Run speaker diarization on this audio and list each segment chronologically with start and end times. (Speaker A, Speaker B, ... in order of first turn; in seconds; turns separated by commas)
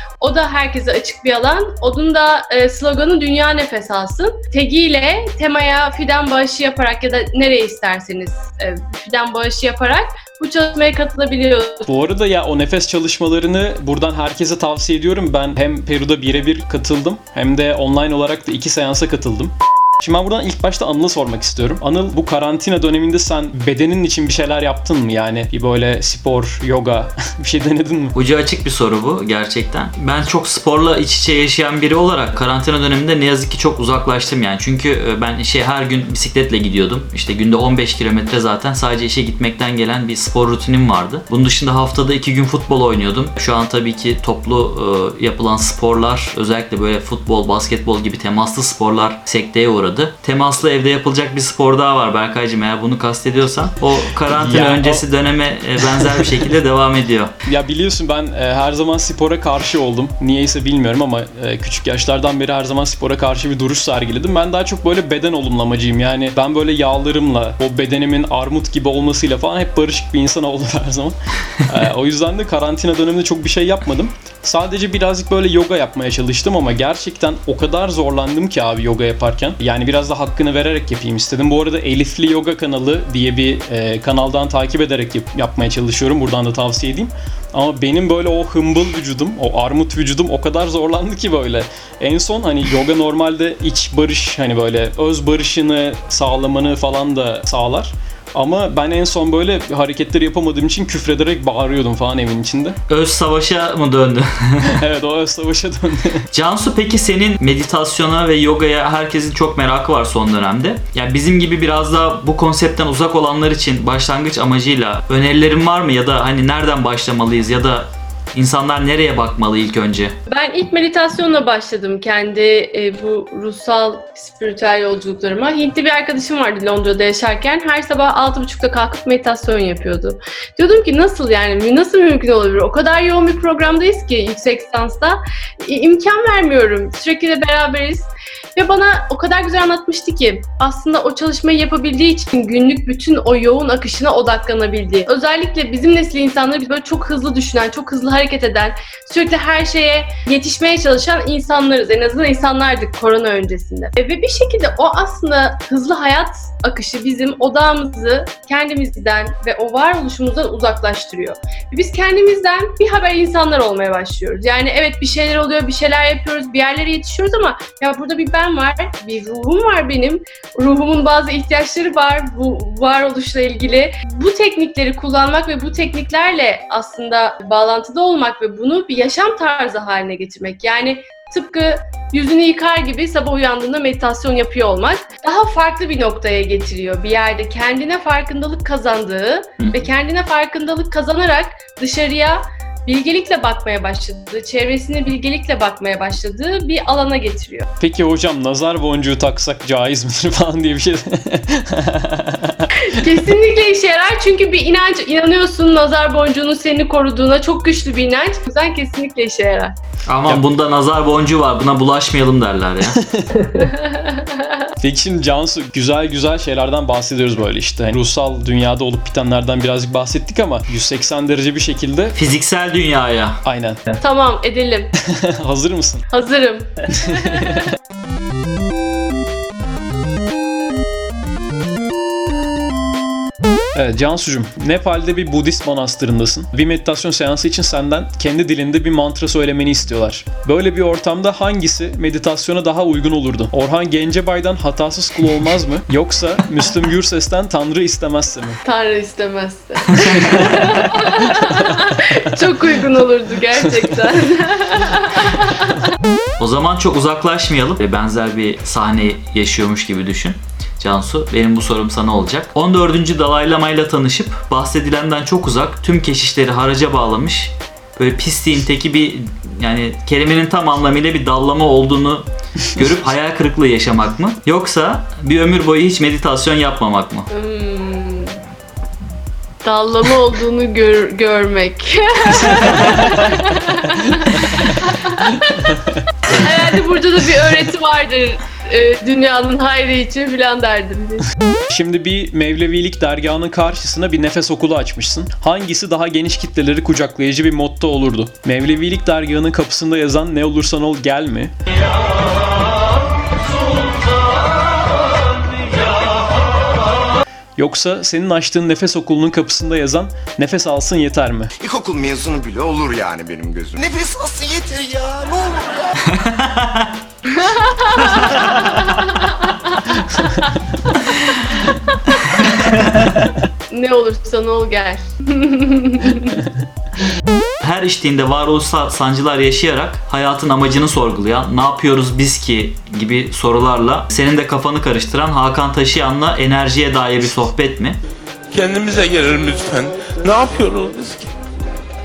Speaker A: 0.2-11.8, Speaker B: 11.9-28.1, Speaker C: 28.1-57.3, Speaker B: 54.3-55.0, Speaker B: 55.8-56.2, Speaker B: 57.4-102.8, Speaker C: 102.9-104.8, Speaker B: 104.7-106.3, Speaker C: 106.3-120.1, Speaker A: 120.3-197.6, Speaker B: 197.8-202.7, Speaker A: 202.9-209.7, Speaker C: 210.1-213.0, Speaker B: 213.0-213.4, Speaker A: 213.6-214.4, Speaker B: 214.8-222.2, Speaker C: 222.1-223.4, Speaker B: 223.4-224.0, Speaker A: 224.0-224.9, Speaker B: 225.4-226.0, Speaker A: 226.1-227.6, Speaker B: 227.2-227.6, Speaker B: 233.7-248.6, Speaker A: 248.6-255.8, Speaker C: 256.4-277.3, Speaker A: 277.3-278.4, Speaker A: 279.6-285.7, Speaker C: 282.6-283.0, Speaker A: 286.3-291.3, Speaker B: 291.7-301.5, Speaker B: 307.6-311.5, Speaker D: 311.6-315.9, Speaker C: 316.1-316.9, Speaker A: 317.3-319.8, Speaker A: 321.3-322.1, Speaker C: 322.5-323.2, Speaker A: 323.7-326.4, Speaker C: 327.6-338.0, Speaker E: 338.5-341.3